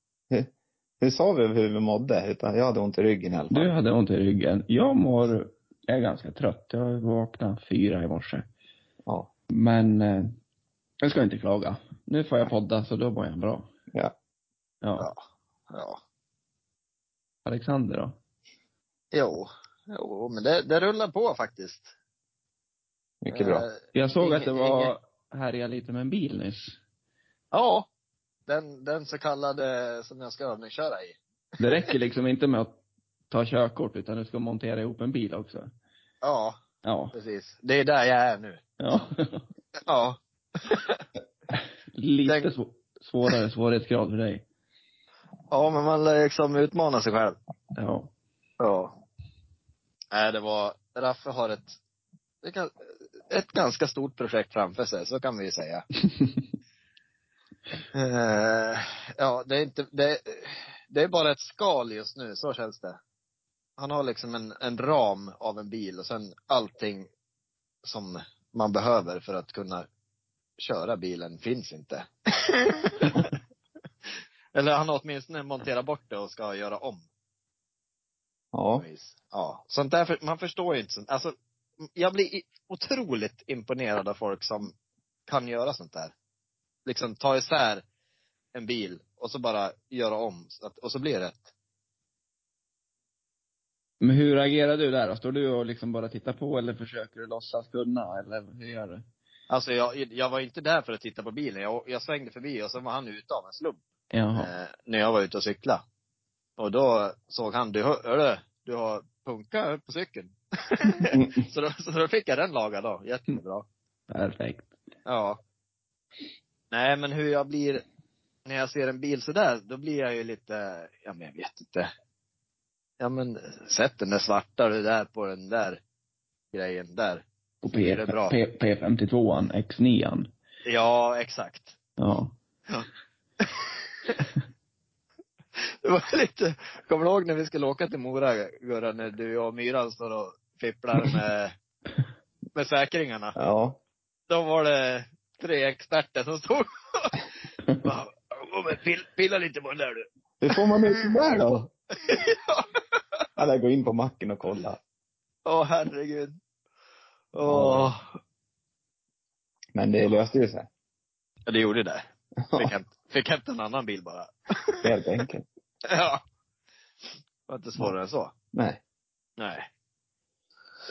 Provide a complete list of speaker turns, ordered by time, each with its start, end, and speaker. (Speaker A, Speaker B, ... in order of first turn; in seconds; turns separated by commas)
Speaker A: 1.0-3.7, Speaker B: 3.5-8.4, Speaker B: 9.5-10.4, Speaker B: 11.0-13.7, Speaker C: 15.0-16.0, Speaker B: 17.4-18.2, Speaker C: 19.1-21.9, Speaker A: 23.2-23.6, Speaker C: 23.3-24.9, Speaker B: 23.9-26.8, Speaker C: 27.5-27.9, Speaker C: 28.5-31.2, Speaker B: 31.6-32.8, Speaker B: 33.3-35.7, Speaker C: 36.2-36.6, Speaker B: 36.8-37.1, Speaker C: 37.1-38.6, Speaker B: 38.8-39.5, Speaker C: 39.8-41.0, Speaker B: 42.0-44.4, Speaker C: 45.5-47.3, Speaker B: 47.7-48.1, Speaker C: 48.6-48.9, Speaker C: 50.1-51.8, Speaker C: 52.4-52.7, Speaker C: 53.3-55.9, Speaker C: 57.9-63.0, Speaker C: 63.8-67.1, Speaker C: 67.8-69.8, Speaker C: 70.6-73.3, Speaker C: 74.5-77.0, Speaker A: 78.5-78.8, Speaker C: 78.8-84.7, Speaker C: 85.3-86.1, Speaker C: 86.8-87.8, Speaker C: 88.5-91.5, Speaker B: 94.0-99.0, Speaker C: 99.5-103.8, Speaker B: 104.1-104.5, Speaker C: 104.3-105.8, Speaker C: 106.6-113.6, Speaker B: 114.1-114.7, Speaker C: 115.0-115.4, Speaker C: 116.7-117.8, Speaker C: 118.5-121.9, Speaker C: 123.0-125.8, Speaker C: 126.5-127.2, Speaker B: 127.6-130.3, Speaker C: 127.8-128.4, Speaker C: 130.7-131.7, Speaker B: 132.0-132.3, Speaker C: 133.4-134.2, Speaker C: 135.7-141.5, Speaker C: 142.5-143.3, Speaker A: 143.3-143.8, Speaker C: 144.3-147.1, Speaker C: 147.8-150.5, Speaker A: 150.4-151.7, Speaker C: 152.0-152.6, Speaker A: 153.4-154.8, Speaker C: 155.4-156.4, Speaker C: 157.3-158.0, Speaker A: 157.4-157.9, Speaker A: 159.7-160.7, Speaker C: 161.4-162.0, Speaker A: 162.5-162.7, Speaker C: 162.6-164.9, Speaker A: 164.8-165.4, Speaker C: 165.9-166.2, Speaker C: 167.5-168.3, Speaker A: 168.5-168.8, Speaker C: 169.4-169.7